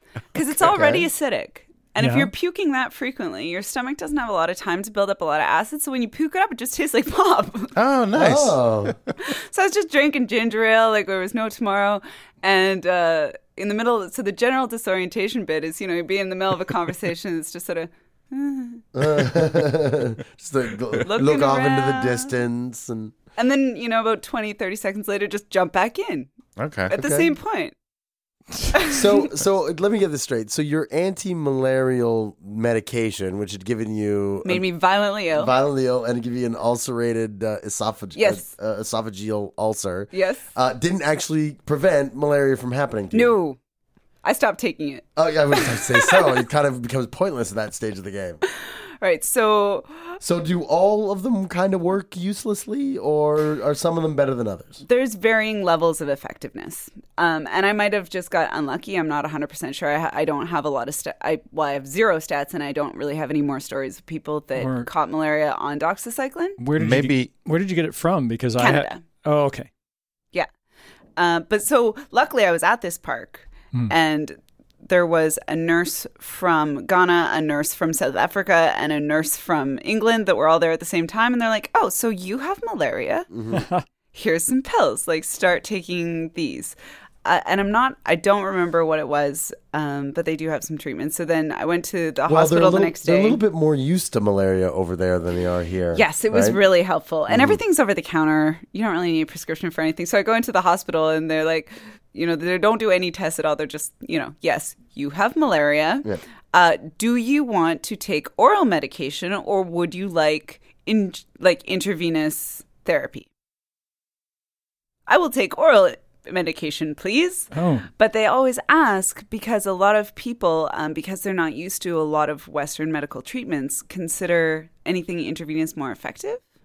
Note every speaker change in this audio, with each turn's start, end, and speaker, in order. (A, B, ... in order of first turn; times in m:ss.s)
0:00.3-0:07.7 A
0:00.5-0:01.0 B
0:02.0-0:02.3 C
0:07.8-0:08.9 D
0:08.1-0:09.0 B
0:09.3-0:18.8 A
0:18.9-0:23.1 B
0:21.0-0:22.4 A
0:23.4-0:26.3 A
0:26.6-0:26.9 D
0:26.9-0:27.7 A
0:26.9-0:27.3 B
0:28.7-0:29.0 A
0:28.8-0:34.6 B
0:34.4-0:35.5 A
0:35.3-0:43.3 B
0:38.2-0:38.5 A
0:40.1-0:40.4 A
0:43.1-0:43.6 A
0:44.2-0:46.4 A
0:45.2-0:48.4 B
0:49.0-0:50.2 A
0:50.2-0:54.8 B
0:54.8-1:06.6 A
1:04.6-1:04.9 C
1:06.6-1:09.7 C
1:06.7-1:07.3 D
1:08.6-1:09.0 A
1:11.2-1:23.3 A
1:23.3-1:23.6 B
1:23.5-1:23.8 C
1:24.1-1:33.4 A
1:32.3-1:36.6 B
1:35.9-1:53.3 A
1:37.3-1:37.6 B
1:55.1-2:06.4 A
1:57.5-1:57.8 C